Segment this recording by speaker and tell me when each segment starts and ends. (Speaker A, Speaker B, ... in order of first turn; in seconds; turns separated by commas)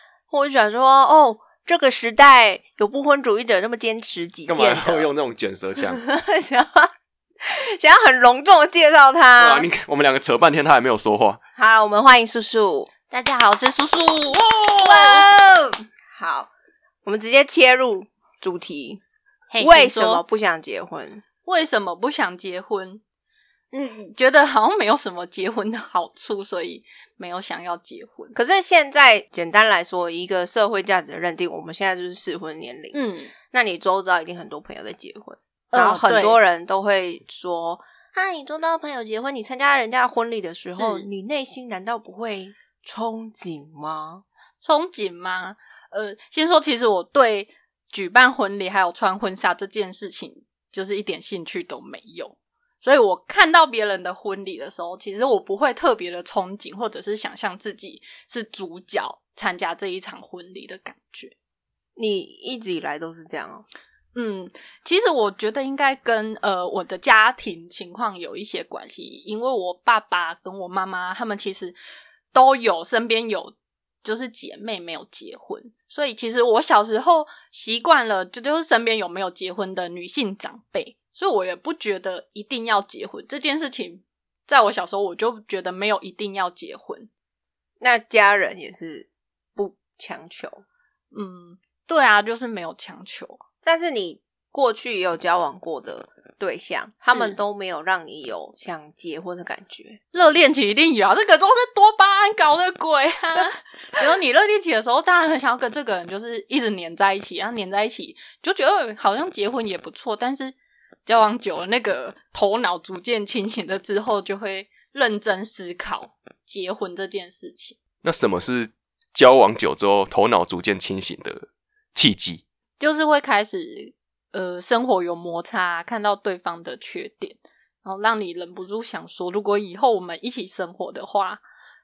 Speaker A: 0.3-5.1, Speaker B: 4.5-6.0, Speaker A: 5.8-6.9, Speaker A: 7.4-9.7, Speaker B: 9.4-11.4, Speaker A: 11.6-12.9, Speaker C: 13.1-15.3, Speaker A: 14.8-16.5, Speaker A: 17.0-19.0, Speaker C: 19.5-20.2, Speaker A: 19.6-21.2, Speaker C: 21.4-23.0, Speaker C: 23.7-28.4, Speaker A: 28.3-44.2, Speaker C: 32.9-33.3, Speaker C: 35.7-36.4, Speaker C: 40.7-41.0, Speaker C: 44.6-61.3, Speaker A: 62.0-63.6, Speaker C: 64.1-71.8, Speaker C: 72.3-87.1, Speaker A: 87.8-90.6, Speaker C: 91.1-93.4, Speaker A: 93.6-100.0, Speaker C: 97.1-97.4, Speaker C: 100.1-117.8, Speaker B: 118.0-122.4, Speaker C: 122.8-131.4